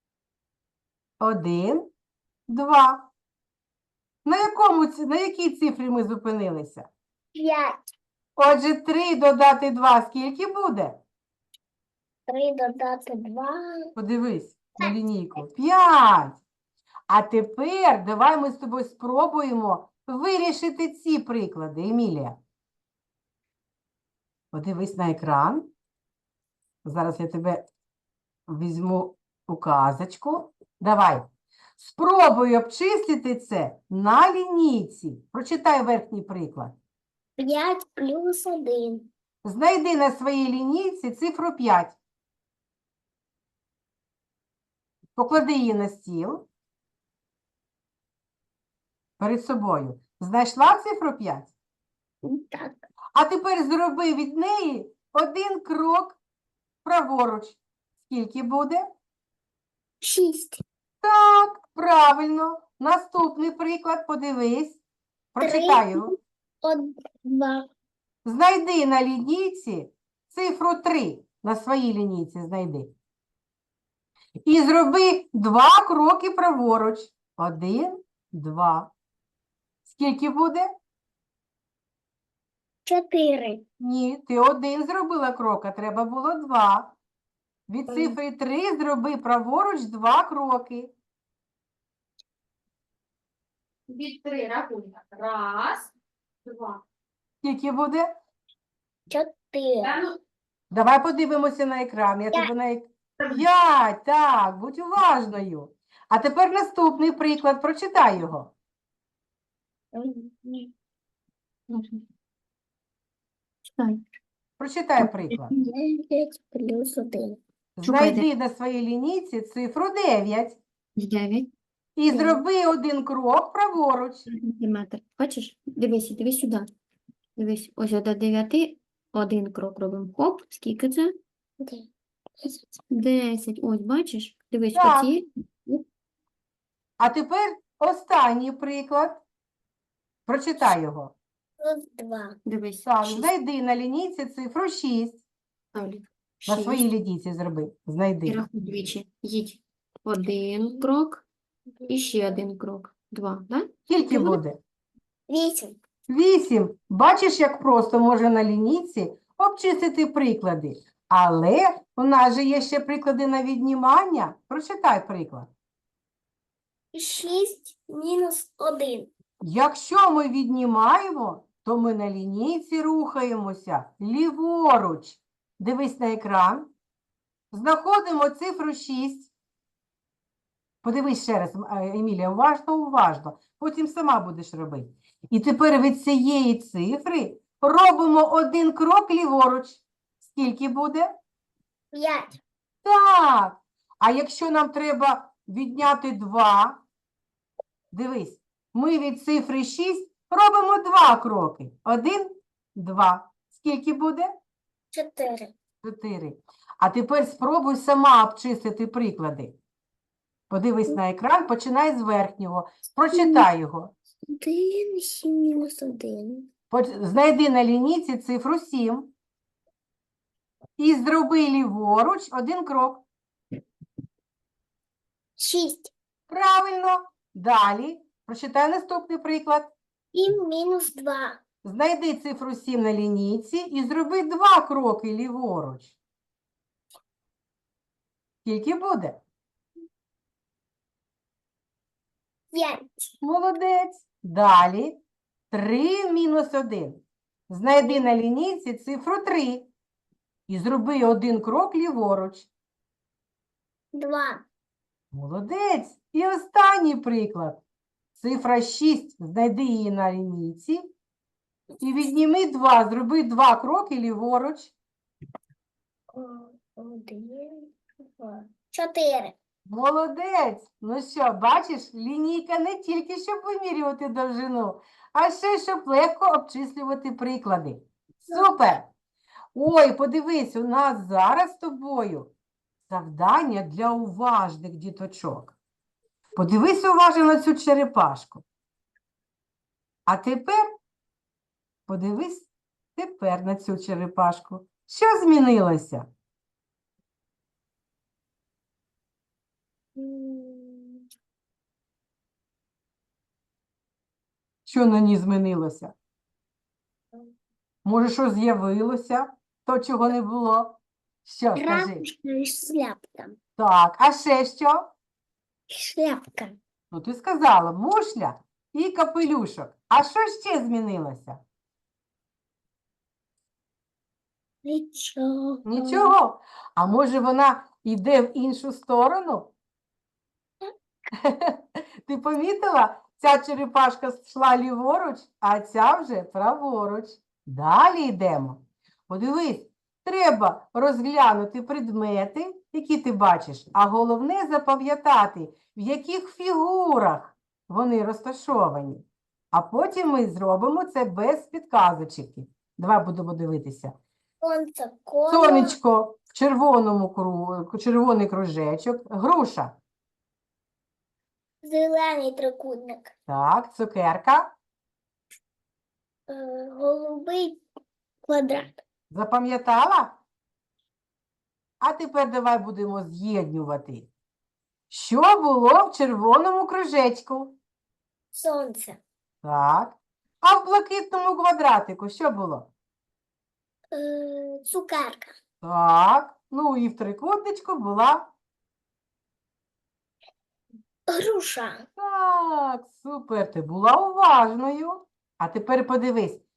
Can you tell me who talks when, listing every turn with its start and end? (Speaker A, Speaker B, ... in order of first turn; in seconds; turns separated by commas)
Speaker A: 1.2-1.9, Speaker A: 2.5-3.1, Speaker A: 4.2-6.9, Speaker B: 7.3-7.8, Speaker A: 8.4-11.0, Speaker B: 12.3-14.0, Speaker A: 14.0-16.4, Speaker A: 17.1-22.4, Speaker A: 24.5-25.7, Speaker A: 26.8-27.7, Speaker A: 28.5-31.3, Speaker A: 31.8-36.8, Speaker B: 37.4-39.1, Speaker A: 39.4-42.0, Speaker A: 45.2-46.5, Speaker A: 49.2-51.5, Speaker B: 52.2-52.8, Speaker A: 53.1-56.2, Speaker A: 56.9-58.9, Speaker B: 60.0-60.6, Speaker A: 61.0-64.8, Speaker A: 65.3-66.1, Speaker B: 65.4-67.7, Speaker A: 68.2-72.9, Speaker A: 74.4-78.9, Speaker A: 79.8-80.7, Speaker B: 82.9-83.6, Speaker A: 83.8-87.0, Speaker A: 87.7-90.9, Speaker B: 87.9-88.2, Speaker C: 93.9-95.9, Speaker C: 96.5-96.8, Speaker A: 97.4-98.1, Speaker B: 99.1-100.0, Speaker C: 99.8-100.2, Speaker A: 100.7-108.5, Speaker B: 109.9-110.7, Speaker C: 111.7-112.0, Speaker C: 113.7-114.0, Speaker A: 114.6-115.5, Speaker C: 115.0-115.5, Speaker B: 115.5-117.4, Speaker A: 117.8-120.6, Speaker C: 117.8-118.3, Speaker C: 121.0-121.5, Speaker A: 122.0-124.2, Speaker B: 122.1-122.4, Speaker C: 124.3-126.7, Speaker C: 127.4-131.2, Speaker B: 131.6-131.9, Speaker B: 132.4-132.7, Speaker C: 132.9-135.8, Speaker A: 134.7-135.1, Speaker A: 137.0-139.2, Speaker A: 140.3-141.2, Speaker B: 141.6-142.4, Speaker C: 142.5-143.3, Speaker A: 142.8-145.2, Speaker C: 145.7-146.9, Speaker A: 146.5-148.4, Speaker C: 148.3-151.3, Speaker C: 151.9-153.7, Speaker A: 153.9-154.6, Speaker B: 155.3-155.8, Speaker A: 156.1-165.5, Speaker B: 166.9-169.1, Speaker A: 169.4-176.7, Speaker A: 177.5-179.3, Speaker A: 180.8-191.2, Speaker B: 191.9-192.4, Speaker A: 192.8-196.8, Speaker A: 197.9-204.3, Speaker B: 204.9-205.5, Speaker A: 205.8-209.6, Speaker A: 210.5-213.9, Speaker B: 213.1-213.5, Speaker B: 214.3-216.5, Speaker A: 216.7-219.1, Speaker A: 220.8-223.1, Speaker B: 225.4-225.9, Speaker A: 226.3-229.7, Speaker B: 230.1-231.4, Speaker A: 231.6-236.0, Speaker A: 238.4-239.2, Speaker B: 242.5-243.1, Speaker A: 243.2-245.0, Speaker A: 245.5-249.7, Speaker A: 250.5-252.5, Speaker B: 253.9-254.4, Speaker A: 255.1-257.6, Speaker A: 258.2-260.9, Speaker A: 261.8-264.7, Speaker B: 266.1-269.4, Speaker A: 269.7-278.9, Speaker B: 278.3-278.5, Speaker A: 279.5-282.3, Speaker A: 282.9-285.6, Speaker A: 286.4-288.4, Speaker A: 290.1-290.7, Speaker A: 291.9-296.1, Speaker B: 299.9-301.1, Speaker A: 304.7-305.9, Speaker A: 307.9-312.1, Speaker B: 311.6-313.4, Speaker A: 313.6-314.9, Speaker B: 315.7-316.6, Speaker A: 316.9-321.4, Speaker B: 324.6-326.1, Speaker A: 325.7-329.5, Speaker A: 331.1-354.0, Speaker B: 354.4-355.8, Speaker A: 355.3-359.8, Speaker B: 361.6-363.1, Speaker A: 363.3-364.5, Speaker B: 366.3-367.6, Speaker B: 368.2-368.8, Speaker A: 369.1-370.2, Speaker A: 371.8-374.1, Speaker A: 374.9-377.6, Speaker B: 378.3-379.0, Speaker A: 379.4-382.7, Speaker B: 383.9-385.3, Speaker A: 385.6-388.3, Speaker B: 391.1-391.9, Speaker A: 392.0-396.4